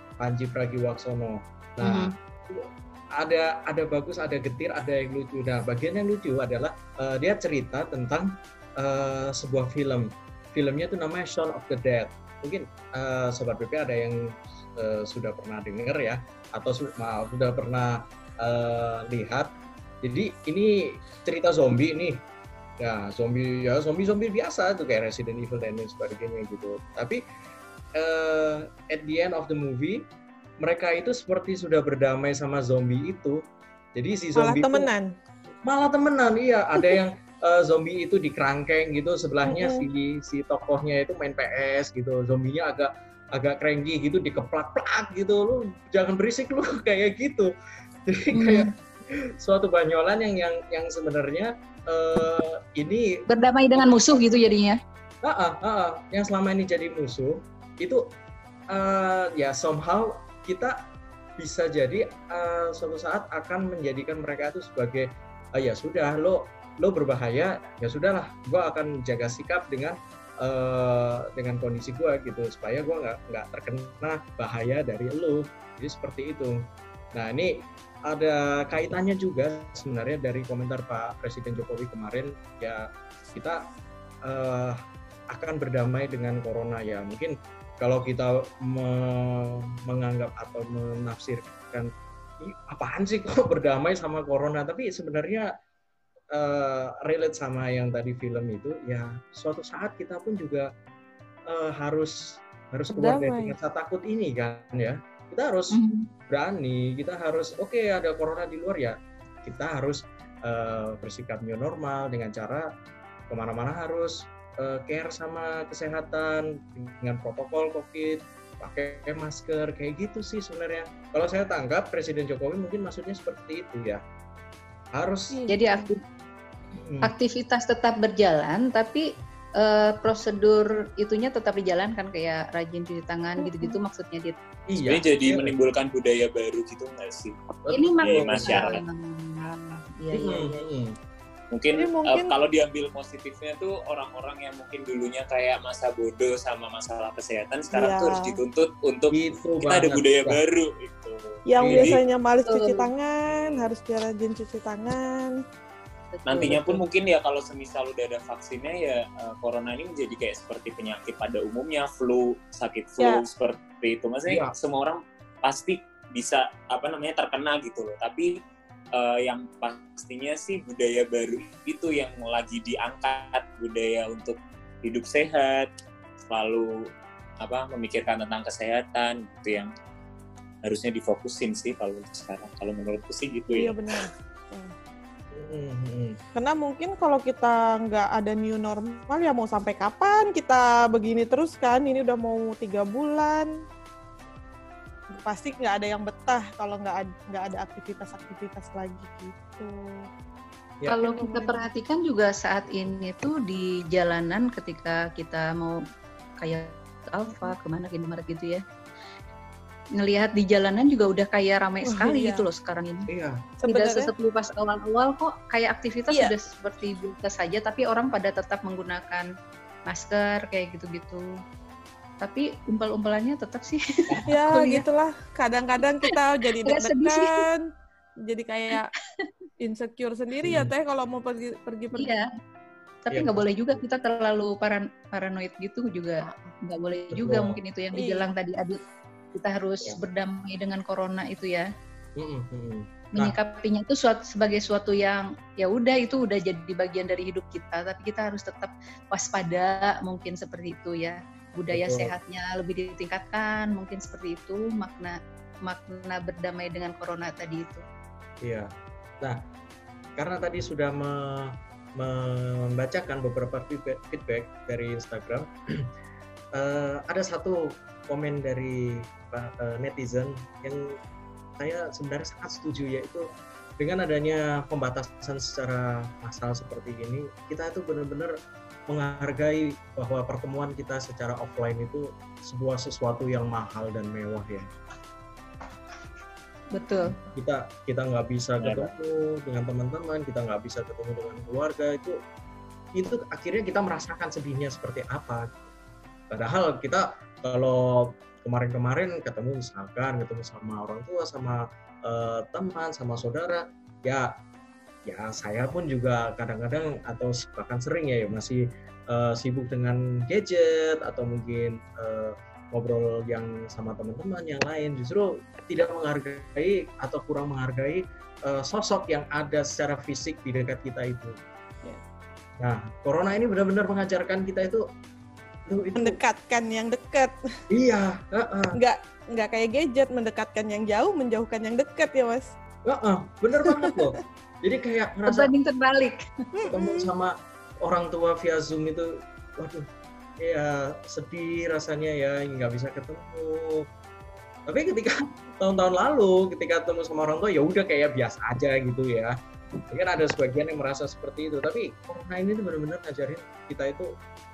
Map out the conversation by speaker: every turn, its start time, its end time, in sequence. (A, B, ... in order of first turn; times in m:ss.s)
0:00.2-0:22.2 A
0:01.8-0:02.1 B
0:22.8-0:27.2 A
0:28.0-0:30.1 A
0:30.6-0:33.4 A
0:34.0-0:34.9 A
0:34.4-0:35.1 C
0:35.6-0:47.5 A
0:39.5-0:39.8 C
0:48.1-0:48.7 A
0:48.3-0:48.7 B
0:49.4-0:53.2 A
0:53.3-0:54.8 B
0:53.8-0:54.3 A
0:55.2-0:58.1 A
0:58.7-1:00.8 A
1:01.4-1:16.6 A
1:17.1-1:23.7 A
1:24.2-1:24.8 A
1:25.3-1:35.5 A
1:36.3-1:40.7 A
1:41.5-1:45.8 A
1:43.0-1:43.5 C
1:45.7-1:46.1 B
1:46.3-1:52.7 A
1:53.3-2:04.0 A
2:04.9-2:05.4 A
2:05.3-2:05.9 C
2:05.5-2:06.0 B
2:06.7-2:07.1 A
2:07.0-2:09.0 B
2:09.6-2:14.4 B
2:13.4-2:13.8 C
2:14.7-2:15.6 A
2:14.8-2:17.4 D
2:17.6-2:18.7 A
2:17.7-2:20.6 B
2:18.0-2:18.8 D
2:20.1-2:21.0 A
2:21.5-2:32.0 D
2:21.8-2:22.3 C
2:27.7-2:28.4 C
2:29.1-2:30.4 A
2:31.5-2:35.4 C
2:31.6-2:32.0 A
2:32.4-2:32.9 B
2:33.3-2:33.6 D
2:36.1-2:36.8 B
2:36.3-2:48.4 D
2:44.3-2:44.5 A
2:49.0-2:55.7 D
2:56.3-2:56.8 D
2:57.4-2:59.7 D
3:00.7-3:03.8 D
3:03.5-3:04.7 C
3:05.3-3:06.2 A
3:06.4-3:13.5 C
3:15.1-3:20.1 C
3:20.9-3:25.8 B
3:20.9-3:21.7 C
3:26.4-3:28.6 B
3:30.0-3:33.1 B
3:31.9-3:32.4 C
3:33.1-3:33.4 A
3:33.6-3:34.1 C
3:33.7-3:39.3 B
3:39.9-3:41.3 B
3:42.2-3:44.8 B
3:44.3-3:47.6 C
3:46.6-3:47.4 B
3:48.3-3:48.9 C
3:49.6-3:52.1 C
3:50.4-3:50.7 A
3:52.0-3:52.3 B
3:53.1-3:58.8 B
3:53.1-3:53.8 A
3:56.3-3:56.5 C
3:57.1-3:57.6 A
3:58.0-3:58.3 C
3:59.3-4:01.7 B
4:02.2-4:03.4 A
4:03.2-4:17.8 B
4:11.7-4:12.1 A
4:18.4-4:19.4 A
4:20.2-4:25.9 A
4:26.5-4:31.0 A
4:31.6-4:33.3 A
4:33.8-4:38.3 A
4:38.9-4:44.7 A
4:46.7-4:47.2 B
4:46.7-4:47.2 C
4:47.3-4:52.2 A
4:48.6-4:48.9 D
4:53.0-4:55.6 A
4:56.3-5:04.3 A
5:05.1-5:21.4 A
5:22.6-5:24.9 A
5:25.7-5:26.2 A
5:26.0-5:27.4 C
5:27.7-5:28.8 A
5:28.8-5:32.5 C
5:32.8-5:35.5 A
5:33.6-5:34.1 C
5:35.3-5:36.2 B
5:36.6-5:37.1 C
5:36.7-5:39.9 A
5:40.4-5:43.9 A
5:44.7-5:49.4 A
5:49.9-5:54.1 A